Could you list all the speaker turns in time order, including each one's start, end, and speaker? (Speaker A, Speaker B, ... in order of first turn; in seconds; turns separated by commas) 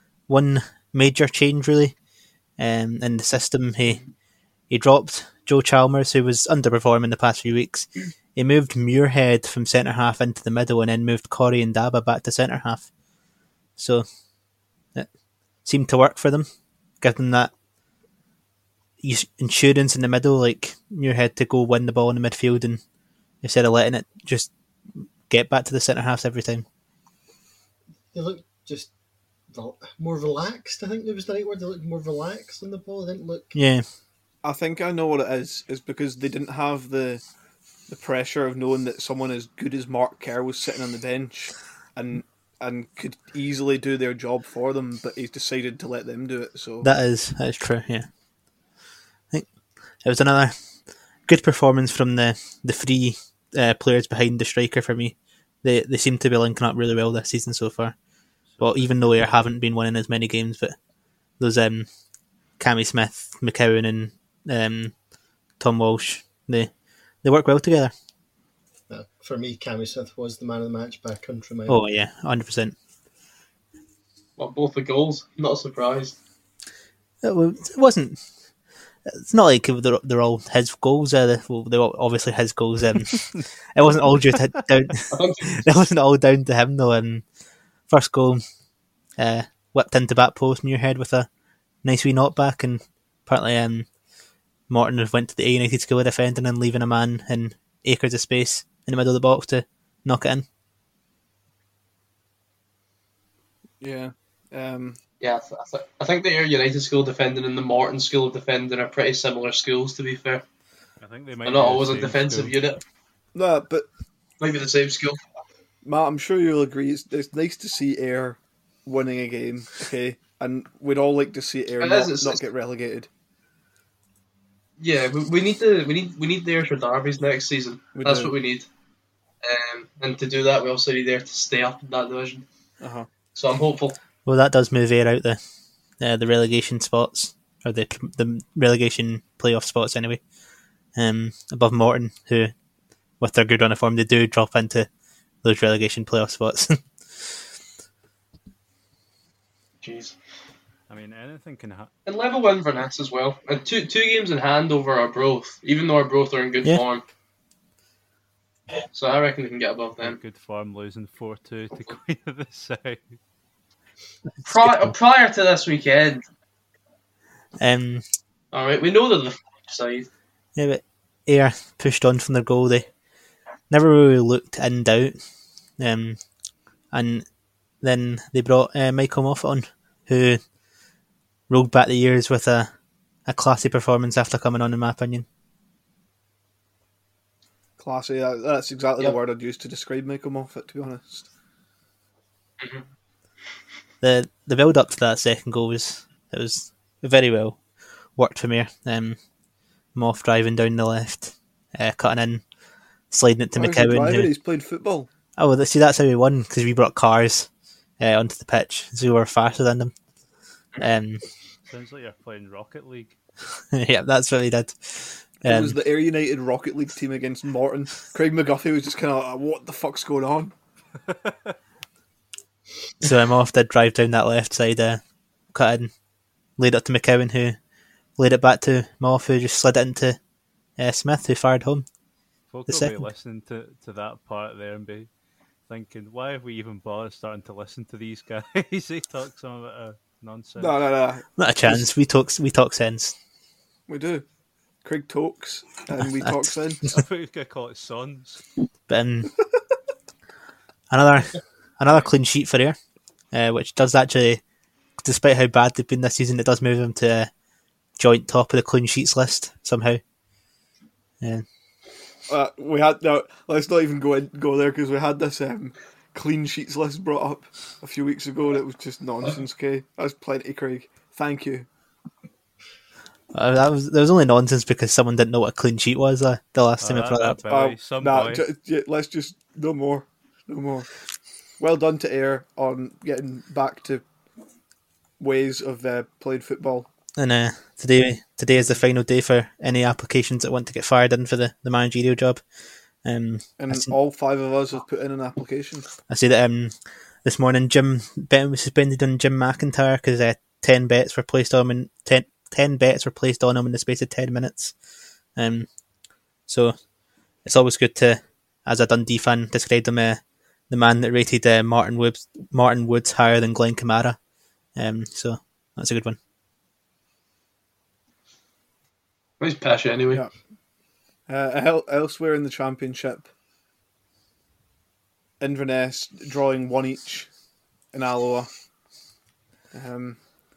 Speaker A: 0.3-2.0, Speaker A: 2.6-4.1, Speaker A: 4.7-12.9, Speaker A: 13.8-14.1, Speaker A: 15.6-16.5, Speaker A: 17.0-17.5, Speaker A: 19.0-22.8, Speaker A: 23.4-26.6, Speaker B: 28.1-28.9, Speaker B: 29.5-33.6, Speaker A: 33.5-33.9, Speaker C: 34.4-37.2, Speaker C: 37.9-46.9, Speaker A: 46.8-48.1, Speaker A: 49.3-58.0, Speaker D: 58.5-59.3, Speaker A: 58.6-60.8, Speaker A: 61.4-61.9, Speaker A: 62.6-65.0, Speaker A: 65.6-66.7, Speaker A: 67.2-67.9, Speaker B: 68.9-71.8, Speaker A: 71.7-72.8, Speaker E: 74.4-76.2, Speaker A: 77.2-78.2, Speaker A: 79.1-87.3, Speaker E: 85.1-85.6, Speaker A: 87.9-88.4, Speaker A: 89.2-91.3, Speaker A: 91.8-93.9, Speaker A: 94.7-100.5, Speaker C: 103.8-105.0, Speaker E: 105.2-110.4, Speaker D: 111.0-112.6, Speaker E: 111.5-112.8, Speaker C: 113.3-113.9, Speaker E: 114.4-115.2, Speaker C: 115.8-123.1, Speaker E: 121.8-122.4, Speaker E: 124.8-128.7, Speaker C: 127.9-128.3, Speaker E: 129.4-132.5, Speaker C: 132.8-133.1, Speaker E: 133.3-134.0, Speaker A: 134.2-135.4, Speaker A: 136.0-140.2, Speaker A: 140.9-142.5, Speaker A: 143.2-144.9, Speaker A: 145.4-147.4, Speaker E: 149.8-150.2, Speaker D: 150.9-151.9, Speaker E: 152.1-157.0, Speaker E: 158.9-160.2, Speaker D: 160.0-163.2, Speaker A: 164.4-164.9, Speaker E: 164.4-166.2, Speaker A: 167.6-168.0, Speaker E: 168.5-170.1, Speaker A: 170.6-172.9, Speaker A: 173.7-175.2, Speaker A: 175.8-176.2, Speaker A: 176.9-177.3, Speaker A: 177.8-180.4, Speaker A: 181.5-182.7, Speaker A: 183.3-185.3, Speaker C: 187.8-191.3, Speaker E: 192.6-192.9, Speaker A: 194.0-197.6, Speaker A: 198.2-199.2, Speaker A: 199.9-202.4, Speaker A: 203.1-204.3, Speaker C: 203.6-205.1, Speaker A: 205.4-207.5, Speaker A: 208.0-209.9, Speaker A: 210.8-211.2, Speaker D: 211.7-213.2, Speaker A: 213.7-215.8, Speaker C: 215.4-220.6, Speaker D: 221.1-221.6, Speaker A: 223.0-225.0, Speaker A: 225.5-225.9, Speaker A: 226.6-227.6, Speaker A: 228.2-230.2, Speaker A: 230.8-231.9, Speaker D: 232.5-235.1, Speaker A: 232.7-233.1, Speaker D: 235.7-240.8, Speaker C: 240.6-241.9, Speaker A: 241.4-243.2, Speaker C: 243.9-244.2, Speaker C: 244.8-246.8, Speaker D: 246.9-248.4, Speaker A: 248.9-249.3, Speaker A: 250.9-252.8, Speaker A: 253.3-254.4, Speaker A: 255.0-257.3, Speaker A: 258.0-260.0, Speaker A: 261.2-261.4, Speaker C: 262.3-271.7, Speaker A: 273.3-277.4, Speaker D: 276.8-278.5, Speaker C: 277.5-281.0, Speaker C: 281.6-284.1, Speaker C: 285.2-286.9, Speaker A: 287.2-292.4, Speaker A: 293.0-294.0, Speaker C: 293.6-295.9, Speaker A: 296.1-304.8, Speaker A: 305.4-305.7, Speaker A: 306.4-306.8, Speaker A: 307.4-314.2, Speaker A: 314.8-316.2, Speaker E: 319.4-320.2, Speaker C: 321.3-323.3, Speaker C: 325.4-327.3, Speaker C: 327.9-328.5, Speaker C: 329.7-330.2